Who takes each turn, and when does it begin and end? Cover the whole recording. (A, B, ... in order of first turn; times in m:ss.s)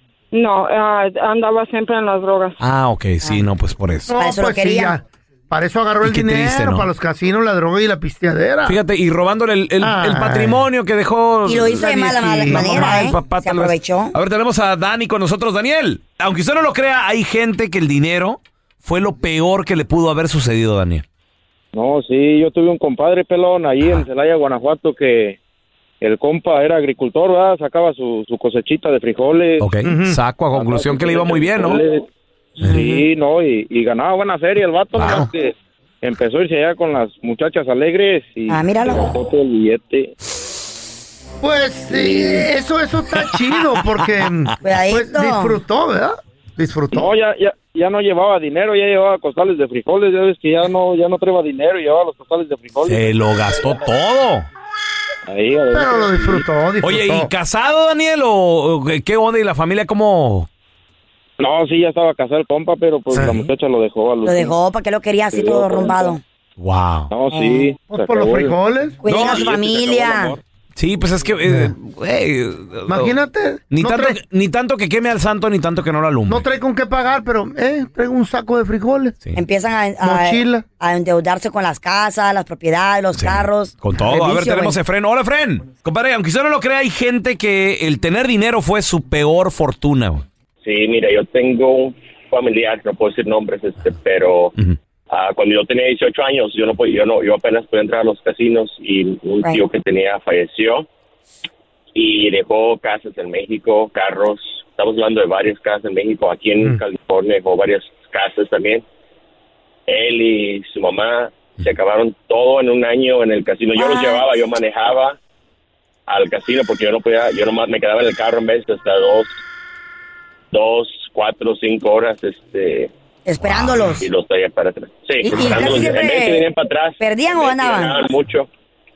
0:00.3-0:02.6 A
0:02.6-0:04.1 B
0:04.1-0:08.8 C
0:04.1-0:05.0 D
0:06.0-0:06.9 B
0:08.6-0:21.0 B
0:09.8-0:10.6 C
0:11.4-0:14.1 D
0:12.4-0:13.1 C
0:21.8-0:25.3 E
0:23.8-0:24.0 B
0:26.0-0:29.6 E
0:29.6-0:31.8 B
0:29.8-0:30.2 C
0:30.5-0:31.9 E
0:32.6-0:33.0 D
0:32.6-0:35.5 E
0:34.9-0:35.3 B
0:36.0-0:40.1 E
0:38.5-0:39.2 D
0:41.4-0:47.1 C
0:44.6-0:45.6 D
0:47.0-0:53.0 E
0:52.8-0:54.5 B
0:55.3-0:56.4 E
0:55.7-0:57.3 C
0:56.8-1:00.5 B
1:01.4-1:04.5 E
1:03.1-1:03.5 B
1:03.1-1:03.4 C
1:04.2-1:06.2 D
1:05.3-1:06.1 E
1:06.6-1:07.1 B
1:07.1-1:08.5 E
1:07.3-1:07.7 D
1:07.8-1:09.0 C
1:09.0-1:10.4 D
1:09.0-1:09.6 B
1:09.2-1:10.4 E
1:10.8-1:13.1 B
1:11.4-1:11.7 C
1:12.9-1:14.2 C
1:13.7-1:16.4 B
1:16.3-1:19.2 C
1:19.3-1:24.8 D
1:20.0-1:20.6 C
1:23.1-1:30.2 B
1:30.6-1:34.5 F
1:35.1-1:40.8 F
1:41.9-1:48.8 F
1:49.9-1:55.2 F
1:53.8-1:54.2 D
1:56.1-1:59.4 F
2:00.5-2:02.9 F
2:03.2-2:04.0 D
2:03.4-2:03.7 B
2:04.0-2:08.5 F
2:05.2-2:06.5 D
2:05.4-2:05.8 C
2:07.0-2:08.1 D